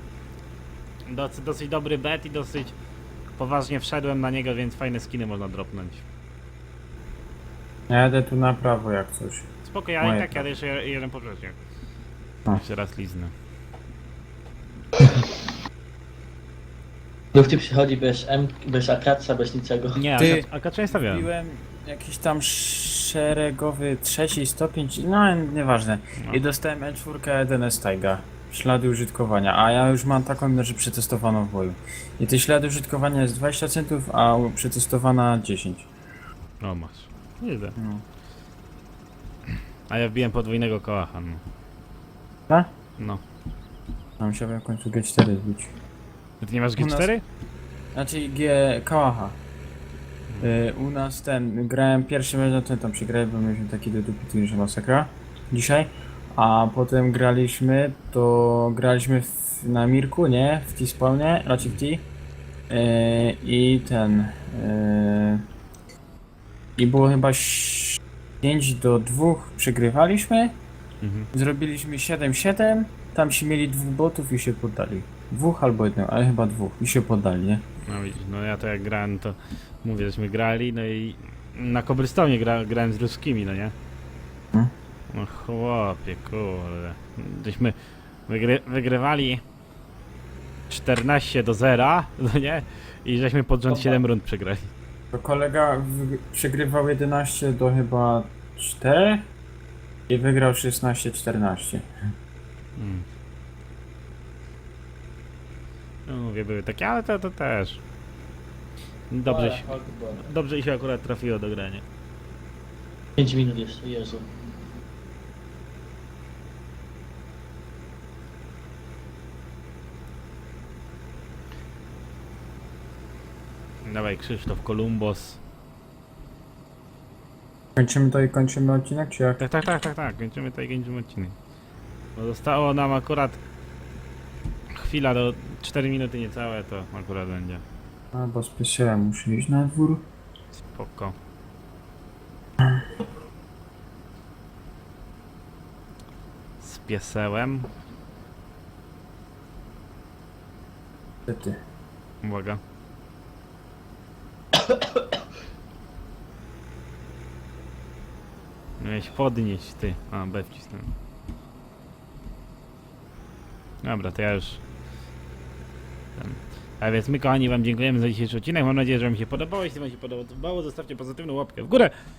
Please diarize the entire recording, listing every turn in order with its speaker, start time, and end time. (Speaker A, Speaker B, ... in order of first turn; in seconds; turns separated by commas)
Speaker A: 1.1-2.7, Speaker A: 3.4-6.0, Speaker B: 7.9-9.5, Speaker A: 9.7-11.6, Speaker B: 10.0-10.4, Speaker A: 12.5-13.3, Speaker C: 17.3-20.0, Speaker A: 20.0-21.3, Speaker B: 20.2-20.5, Speaker B: 21.0-35.9, Speaker A: 36.6-37.8, Speaker B: 37.8-38.0, Speaker A: 39.9-41.4, Speaker B: 44.2-45.7, Speaker A: 46.4-47.2, Speaker B: 46.8-47.1, Speaker B: 47.9-49.4, Speaker B: 50.4-62.0, Speaker B: 62.7-65.5, Speaker B: 66.8-70.6, Speaker A: 71.0-71.3, Speaker B: 71.3-77.6, Speaker A: 77.8-83.8, Speaker A: 85.1-89.4, Speaker A: 90.7-94.7, Speaker C: 93.7-94.0, Speaker B: 95.1-99.3, Speaker B: 100.1-101.8, Speaker A: 102.8-103.1, Speaker A: 106.1-107.8, Speaker A: 109.1-111.8, Speaker C: 109.3-110.3, Speaker C: 113.2-114.3, Speaker A: 123.8-125.4, Speaker B: 127.8-129.4, Speaker A: 129.4-131.4, Speaker A: 132.2-133.4, Speaker A: 134.7-137.6, Speaker B: 138.1-140.0, Speaker A: 140.5-141.2, Speaker B: 142.6-142.9, Speaker A: 146.6-147.7, Speaker B: 151.3-151.6, Speaker A: 152.2-152.6, Speaker A: 158.8-160.9, Speaker A: 163.8-164.6, Speaker A: 166.2-171.9